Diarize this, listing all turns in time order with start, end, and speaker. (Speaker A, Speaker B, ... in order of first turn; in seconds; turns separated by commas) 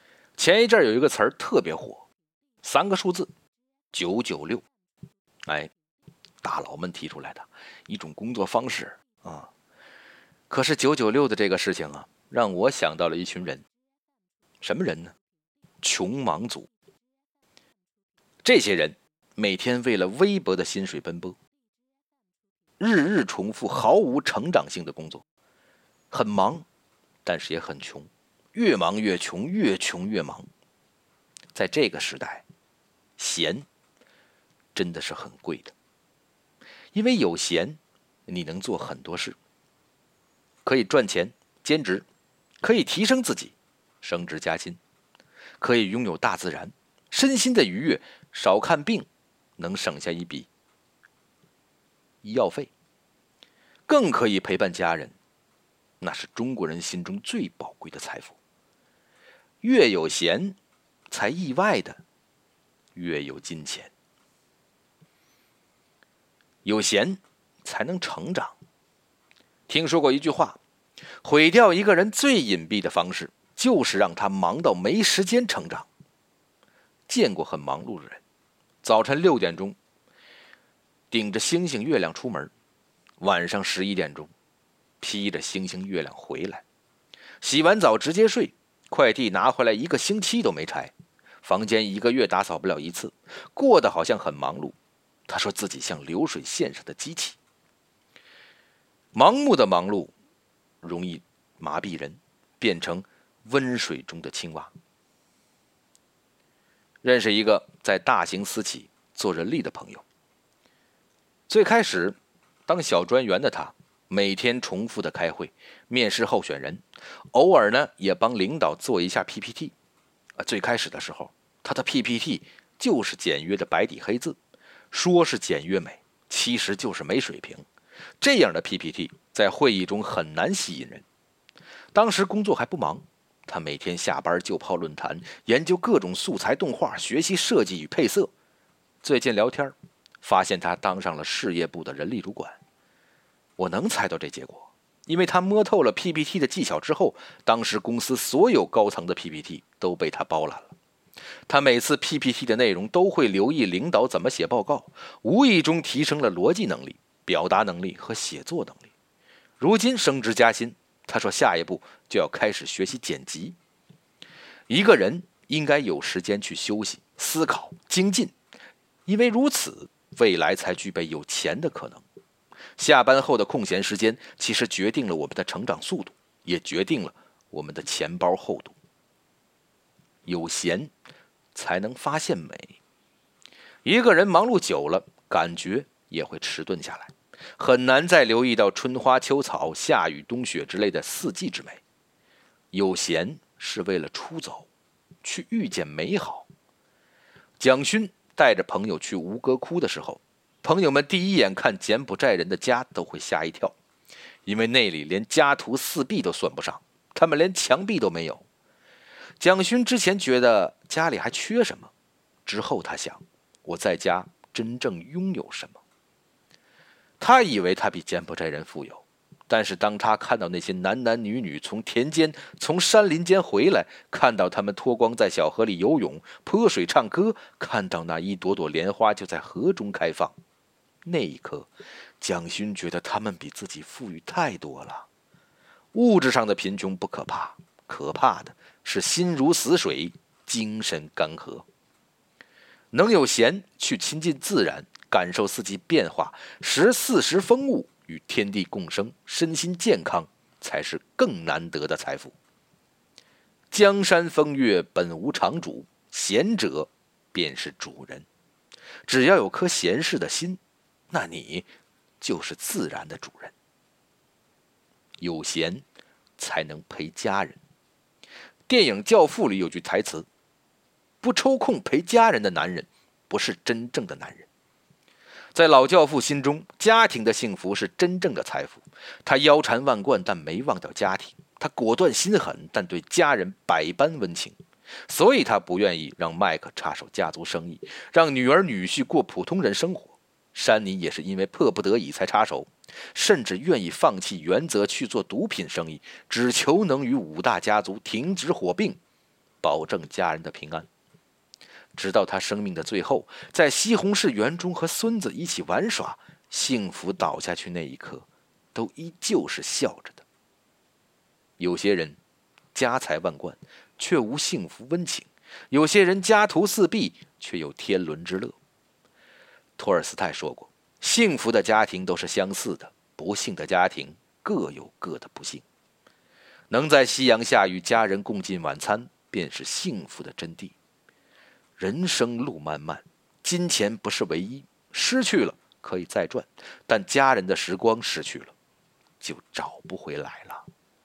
Speaker A: 0.4-2.1, Speaker A: 2.6-3.3, Speaker A: 3.9-4.7, Speaker A: 5.5-5.7, Speaker A: 6.4-9.5, Speaker A: 10.5-13.6, Speaker A: 14.6-15.1, Speaker A: 15.8-16.7, Speaker A: 18.4-21.4, Speaker A: 22.8-25.2, Speaker A: 26.1-26.6, Speaker A: 27.2-30.5, Speaker A: 31.5-32.4, Speaker A: 33.2-33.6, Speaker A: 34.7-35.7, Speaker A: 36.9-39.4, Speaker A: 40.6-42.0, Speaker A: 42.6-44.8, Speaker A: 45.6-49.1, Speaker A: 49.6-50.5, Speaker A: 52.2-52.7, Speaker A: 53.9-55.1, Speaker A: 56.0-58.4, Speaker A: 59.6-60.6, Speaker A: 61.1-62.0, Speaker A: 62.9-63.9, Speaker A: 66.6-68.5, Speaker A: 69.7-70.6, Speaker A: 71.2-75.9, Speaker A: 77.1-78.2, Speaker A: 78.8-79.8, Speaker A: 81.1-82.5, Speaker A: 83.2-84.3, Speaker A: 85.0-86.6, Speaker A: 87.4-94.8, Speaker A: 95.3-97.4, Speaker A: 99.1-100.1, Speaker A: 100.8-104.7, Speaker A: 107.0-110.0, Speaker A: 111.5-119.7, Speaker A: 120.4-124.4, Speaker A: 124.9-127.6, Speaker A: 128.2-131.0, Speaker A: 131.9-138.3, Speaker A: 139.0-142.6, Speaker A: 143.6-150.8, Speaker A: 151.5-158.9, Speaker A: 159.6-163.6, Speaker A: 164.7-168.3, Speaker A: 169.1-172.0, Speaker A: 172.8-178.8, Speaker A: 180.2-180.9, Speaker A: 181.5-182.8, Speaker A: 183.8-191.8, Speaker A: 192.7-194.7, Speaker A: 195.2-196.5, Speaker A: 197.6-203.8, Speaker A: 204.4-208.4, Speaker A: 209.4-211.9, Speaker A: 212.4-215.8, Speaker A: 217.2-230.3, Speaker A: 231.0-235.1, Speaker A: 235.9-241.7, Speaker A: 242.9-252.3, Speaker A: 253.7-258.2, Speaker A: 259.1-260.6, Speaker A: 261.1-261.7, Speaker A: 262.2-263.5, Speaker A: 265.2-265.9, Speaker A: 266.4-267.6, Speaker A: 268.7-270.3, Speaker A: 271.2-274.5, Speaker A: 275.5-299.0, Speaker A: 299.6-300.9, Speaker A: 301.9-310.2, Speaker A: 311.6-312.2, Speaker A: 312.7-318.6, Speaker A: 319.8-325.6, Speaker A: 326.7-330.7, Speaker A: 331.8-338.5, Speaker A: 339.2-340.6